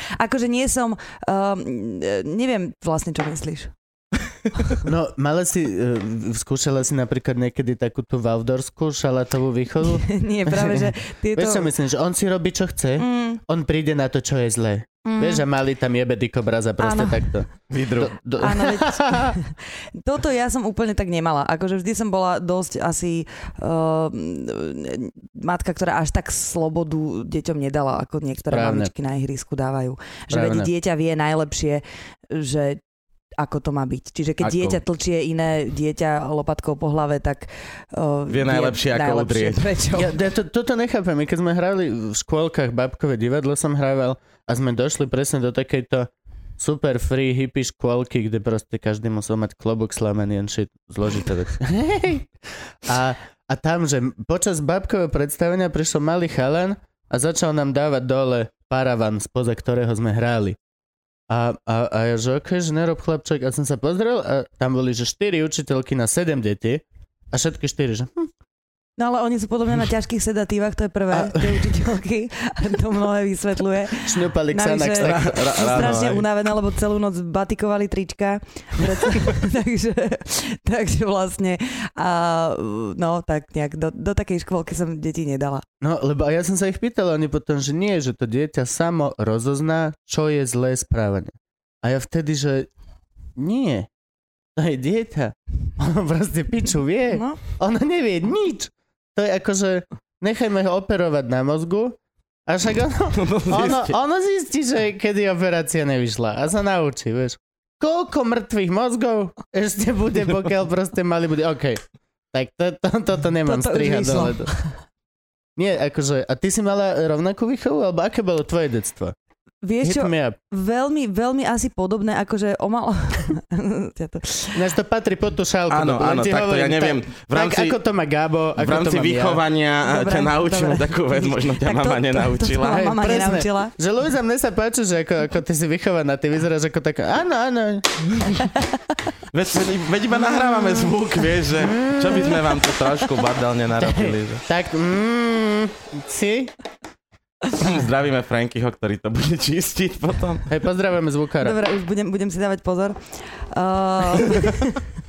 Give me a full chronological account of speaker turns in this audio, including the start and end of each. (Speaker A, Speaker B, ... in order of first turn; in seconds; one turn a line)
Speaker A: 0.2-3.7
Speaker B: 4.8-19.4
Speaker A: 9.8-11.7
Speaker A: 13.0-13.4
Speaker A: 15.0-15.4
Speaker A: 16.8-17.4
Speaker C: 17.7-18.1
Speaker A: 18.4-32.8
Speaker B: 28.5-28.9
Speaker B: 30.3-30.7
Speaker A: 33.4-40.1
Speaker C: 34.4-34.8
Speaker C: 38.3-39.6
Speaker B: 39.9-52.3
Speaker B: 52.9-60.6
Speaker B: 61.3-68.3
Speaker A: 69.0-85.6
Speaker B: 71.1-71.7
Speaker B: 74.0-76.2
Speaker C: 75.0-76.2
Speaker B: 85.8-92.7
Speaker B: 93.3-93.9
Speaker B: 94.5-111.8
Speaker A: 97.1-97.4
Speaker C: 103.1-104.0
Speaker B: 112.3-114.5
Speaker A: 113.5-114.7
Speaker B: 115.5-119.1
Speaker A: 119.6-124.7
Speaker B: 119.8-120.3
Speaker B: 124.5-129.4
Speaker C: 125.7-127.8
Speaker C: 128.6-132.9
Speaker A: 129.8-133.7
Speaker B: 132.7-137.9
Speaker C: 139.3-144.4
Speaker B: 141.6-142.4
Speaker B: 143.8-146.5
Speaker C: 147.5-150.5
Speaker B: 150.5-151.6
Speaker A: 151.4-153.0
Speaker A: 153.5-154.8